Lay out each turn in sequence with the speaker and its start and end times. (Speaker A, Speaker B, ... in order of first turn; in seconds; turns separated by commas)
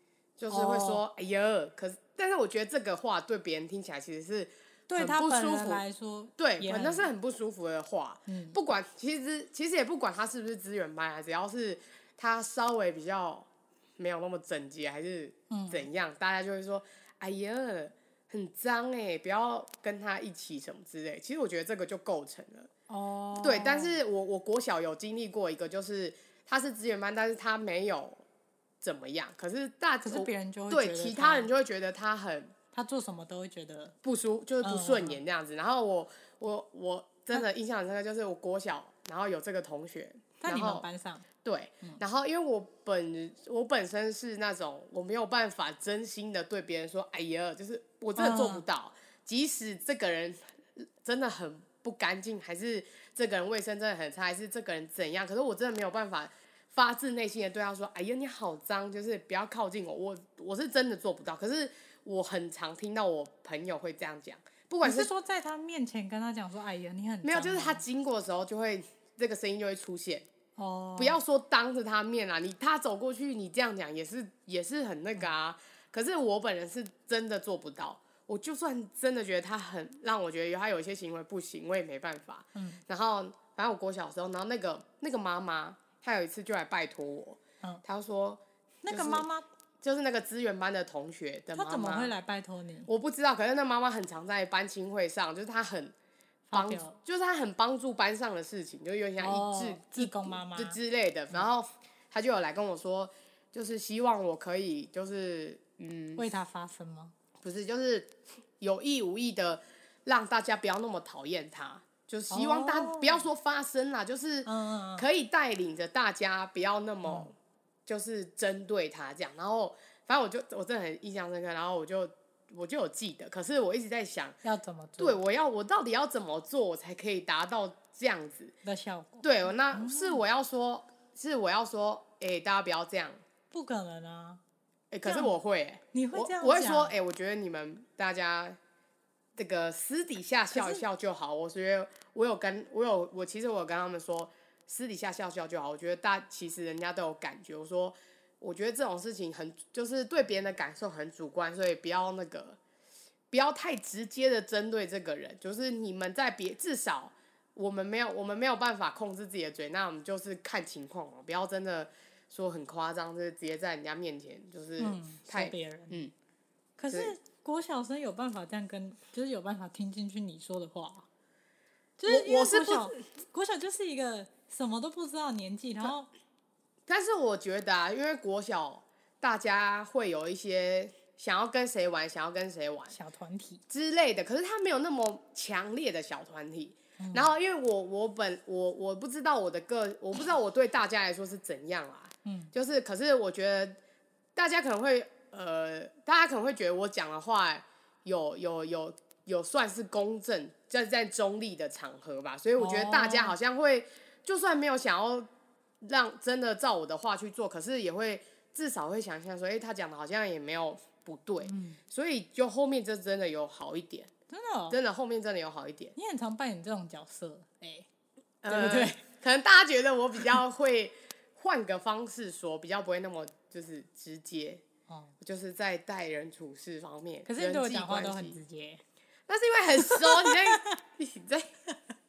Speaker A: 0.4-5.8, Speaker B: 0.5-1.0, Speaker B: 4.9-7.1, Speaker A: 6.4-22.7, Speaker B: 8.3-8.6, Speaker B: 15.5-15.9, Speaker B: 22.9-24.0, Speaker A: 23.4-28.2, Speaker A: 28.8-32.5, Speaker B: 30.0-31.5, Speaker B: 32.7-34.0, Speaker A: 34.0-40.9, Speaker B: 34.6-35.2, Speaker B: 40.4-41.3, Speaker A: 41.4-65.1, Speaker B: 48.2-48.6, Speaker B: 64.8-67.8, Speaker A: 67.2-70.3, Speaker B: 70.6-71.2, Speaker A: 71.0-89.3, Speaker B: 82.5-82.8, Speaker B: 88.8-89.5, Speaker A: 89.8-92.1, Speaker B: 91.5-92.9, Speaker A: 92.9-95.9, Speaker B: 96.5-97.0, Speaker A: 96.5-106.2, Speaker B: 99.2-100.8, Speaker B: 106.2-107.1, Speaker A: 107.4-117.3, Speaker B: 112.3-113.3, Speaker B: 114.5-115.1, Speaker B: 117.0-117.3, Speaker A: 117.9-124.4, Speaker B: 124.4-125.2, Speaker A: 125.0-128.5, Speaker B: 128.6-130.2, Speaker A: 129.2-133.2, Speaker B: 133.5-134.4, Speaker A: 134.9-138.6, Speaker B: 135.1-135.3, Speaker B: 135.9-136.9, Speaker A: 139.4-152.6, Speaker B: 140.5-140.8, Speaker A: 153.3-166.1, Speaker B: 164.8-166.0, Speaker B: 166.8-171.1, Speaker B: 172.0-176.1, Speaker A: 172.1-173.0, Speaker A: 176.9-182.9, Speaker B: 182.9-183.6, Speaker A: 183.7-193.8, Speaker B: 187.0-187.3, Speaker B: 192.2-192.5, Speaker A: 194.3-205.3, Speaker B: 202.6-203.3, Speaker A: 205.8-214.1, Speaker B: 211.4-211.8, Speaker B: 214.3-214.8, Speaker A: 214.7-215.9, Speaker B: 216.0-217.9, Speaker A: 218.4-224.6, Speaker B: 218.5-219.0, Speaker B: 224.9-225.1, Speaker A: 225.2-228.4, Speaker B: 227.3-228.8, Speaker A: 229.3-231.5, Speaker B: 229.9-230.7